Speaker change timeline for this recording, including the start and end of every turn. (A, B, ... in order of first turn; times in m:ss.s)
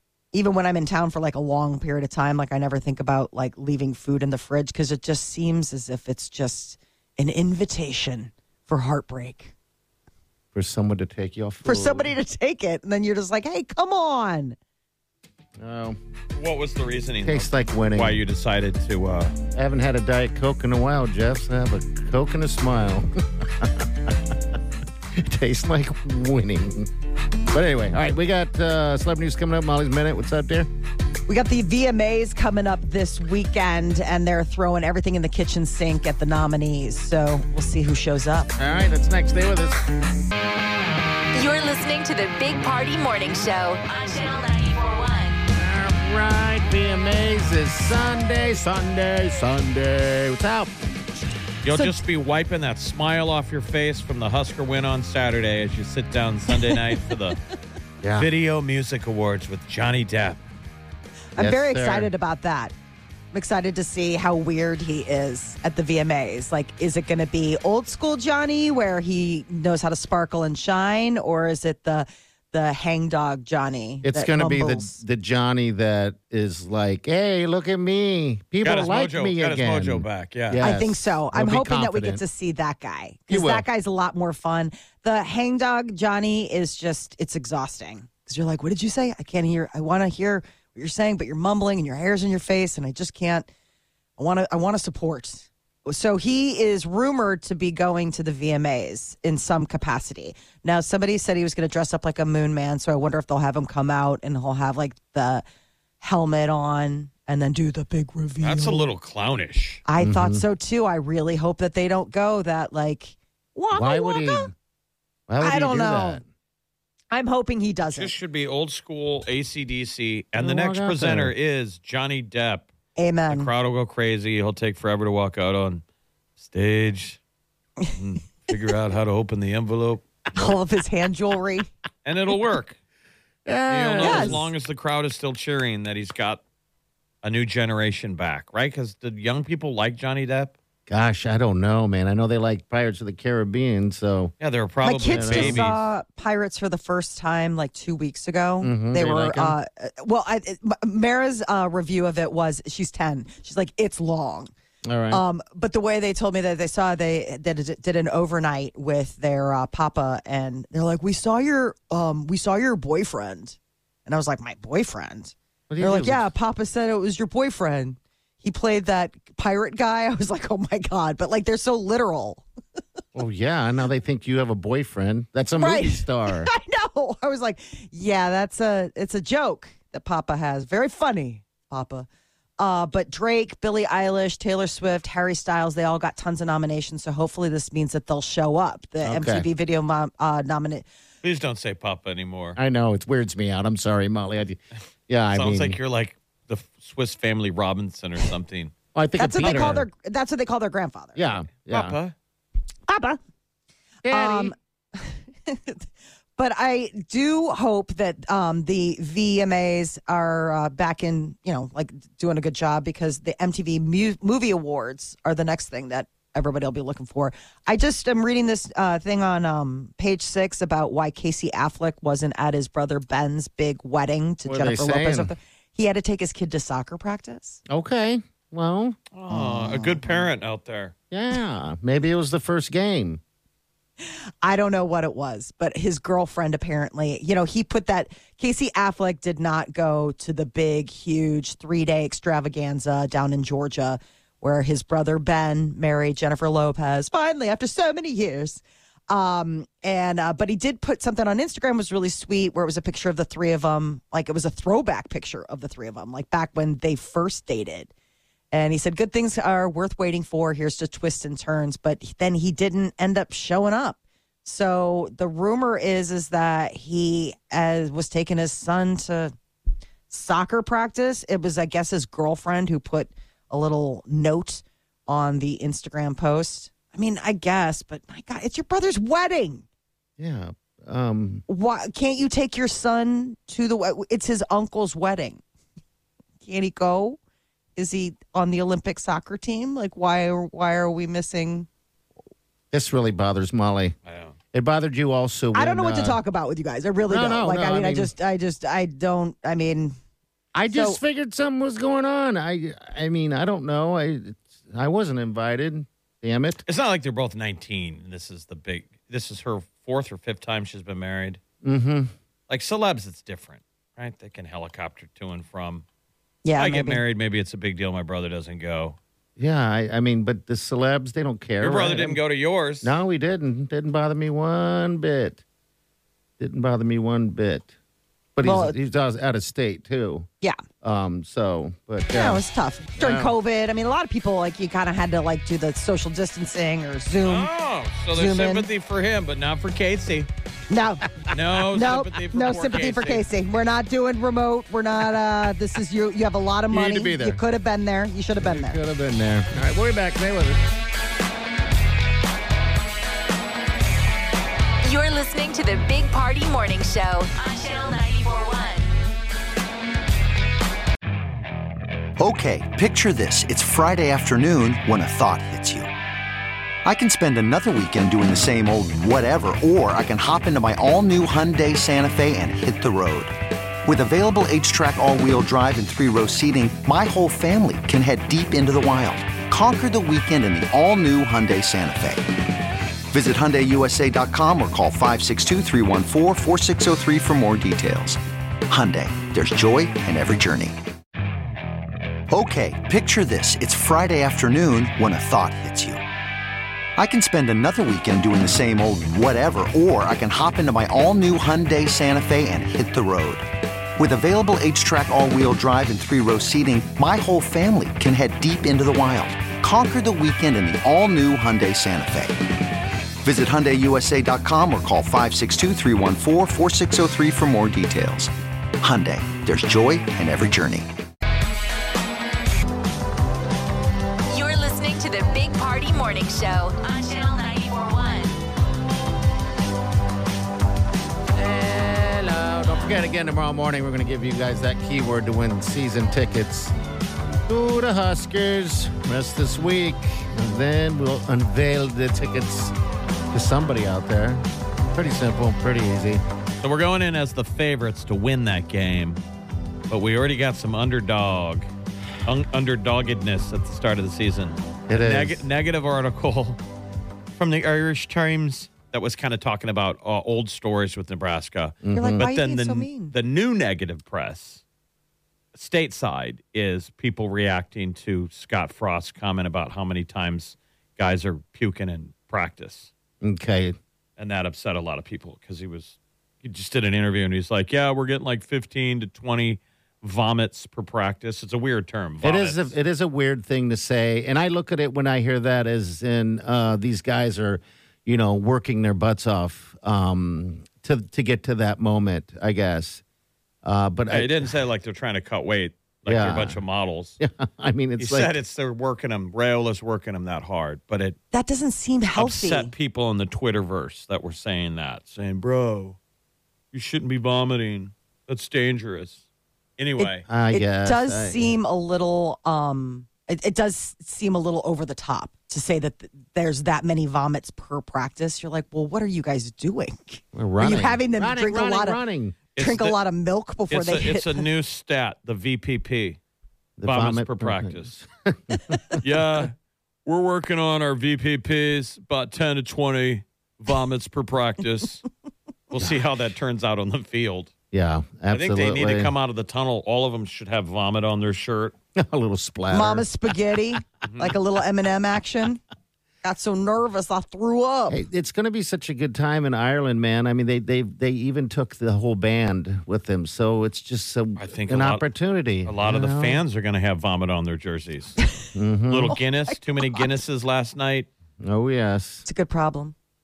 0:00.3-0:09.5 A
0:10.5-0:12.1 B
0:11.6-0:14.6 A
0:15.6-0:16.0 B
0:16.3-0:19.3 C
0:17.2-0:18.2 B
0:19.6-0:24.2 B
0:25.2-0:26.9 B
0:27.5-0:30.7 B
0:31.3-0:38.5 A
0:38.6-0:39.8 B
0:41.4-0:45.4 D
0:45.6-0:50.8 B
0:51.6-0:57.4 C
0:58.0-0:58.3 B
0:58.2-1:00.4 C
1:01.4-1:02.7 A
1:01.4-1:02.1 B
1:03.3-1:15.0 A
1:14.0-1:22.2 B
1:18.6-1:20.6 C
1:20.6-1:33.5 A
1:23.3-1:23.7 B
1:34.2-1:45.4 A
1:46.0-1:48.9 A
1:48.4-1:49.8 C
1:49.9-1:54.5 A
1:50.0-1:50.4 B
1:53.7-1:54.5 B
1:55.3-1:56.2 B
1:55.4-1:56.2 A
1:57.1-1:58.1 A
1:58.0-2:02.7 C
2:00.4-2:01.3 B
2:03.0-2:03.5 A
2:03.3-2:05.8 C
2:06.4-2:07.2 C
2:08.0-2:10.5 C
2:10.4-2:11.7 A
2:12.0-2:12.8 C
2:13.5-2:14.5 B
2:13.7-2:16.4 C
2:14.0-2:14.4 A
2:17.2-2:20.6 C
2:20.9-2:24.3 B
2:24.4-2:25.8 C
2:24.8-2:34.5 A
2:25.1-2:25.7 B
2:28.6-2:29.6 B
2:34.8-2:35.2 B
2:35.1-2:52.4 A
2:45.7-2:46.3 B
2:53.1-2:56.5 B
2:55.6-3:02.1 A
3:02.6-3:10.9 A
3:09.0-3:09.5 B
3:11.2-3:12.6 C
3:12.6-3:15.8 B
3:15.3-3:18.8 C
3:18.9-3:19.9 B
3:19.2-3:21.3 A
3:19.4-3:19.8 C
3:21.2-3:22.0 B
3:21.7-3:22.1 C
3:22.9-3:23.2 A
3:24.0-3:24.5 B
3:24.1-3:25.8 A
3:26.4-3:47.6 A
3:44.4-3:45.3 B
3:47.7-3:50.3 B
3:49.1-3:50.9 C
3:51.1-3:53.2 B
3:54.0-4:17.9 A
4:18.5-4:29.3 A
4:30.1-4:39.6 A
4:40.2-4:41.4 B
4:41.5-4:45.4 A
4:46.4-4:47.2 A
4:47.8-4:51.7 A
4:52.7-4:54.0 B
4:54.1-4:54.4 C
4:54.5-4:56.2 B
4:55.5-5:00.0 A
4:57.1-4:58.1 B
5:00.5-5:06.6 B
5:00.7-5:01.0 A
5:06.7-5:11.4 C
5:11.6-5:12.1 B
5:12.5-5:15.8 C
5:16.4-5:17.0 A
5:16.6-5:19.0 C
5:19.4-5:22.2 B
5:21.6-5:23.0 C
5:22.8-5:25.4 B
5:26.4-5:27.7 B
5:28.4-5:30.3 B
5:28.4-5:28.8 A
5:30.8-5:32.4 B
5:32.1-5:37.5 A
5:33.0-5:33.3 B
5:37.2-5:40.3 C
5:38.1-5:38.7 A
5:40.7-5:41.1 A
5:41.3-5:43.3 C
5:41.7-5:48.8 A
5:46.7-5:47.4 B
5:48.4-5:50.6 B
5:54.8-5:58.9 D
6:02.2-6:05.9 E
6:06.8-6:13.3 E
6:13.8-6:22.2 E
6:23.1-6:30.8 E
6:32.3-6:36.0 E
6:37.0-6:43.4 E
6:44.0-6:52.4 E
6:53.2-7:00.9 E
7:04.3-7:08.4 D
7:11.4-7:16.7 B
7:17.5-7:22.7 B
7:23.3-7:26.2 B
7:26.6-7:29.2 C
7:29.9-7:31.7 C
7:32.3-7:36.6 C
7:34.9-7:35.4 B
7:37.4-7:44.6 C
7:41.8-7:42.3 B
7:41.9-7:43.1 A
7:45.5-7:52.9 C
7:53.2-7:53.8 B
7:54.2-8:02.7 C
8:02.2-8:13.0 B
8:13.6-8:14.5 B
8:14.1-8:17.2 C
8:16.1-8:16.6 B
8:17.2-8:18.4 B
8:18.0-8:21.2 C
8:21.3-8:22.7 A
8:22.2-8:26.0 C
8:26.7-8:29.2 C
8:29.8-8:30.3 C
8:30.0-8:42.0 A
8:30.3-8:31.6 B
8:40.3-8:42.4 B
8:42.6-8:43.0 C
8:42.6-8:44.5 A
8:43.7-8:46.2 C
8:46.8-8:49.0 B
8:46.8-8:47.9 C
8:49.0-8:49.5 C
8:50.1-8:55.0 C
8:55.7-8:57.5 C
8:55.8-8:56.1 B
8:57.7-8:59.1 B
8:58.3-9:01.8 C
9:02.0-9:03.1 B
9:02.7-9:05.6 A
9:04.0-9:04.3 C
9:06.2-9:08.0 A
9:07.9-9:16.4 B
9:14.4-9:15.1 C
9:15.6-9:18.2 C
9:18.6-9:19.2 B
9:18.9-9:21.1 C
9:21.4-9:22.3 B
9:22.3-9:23.0 A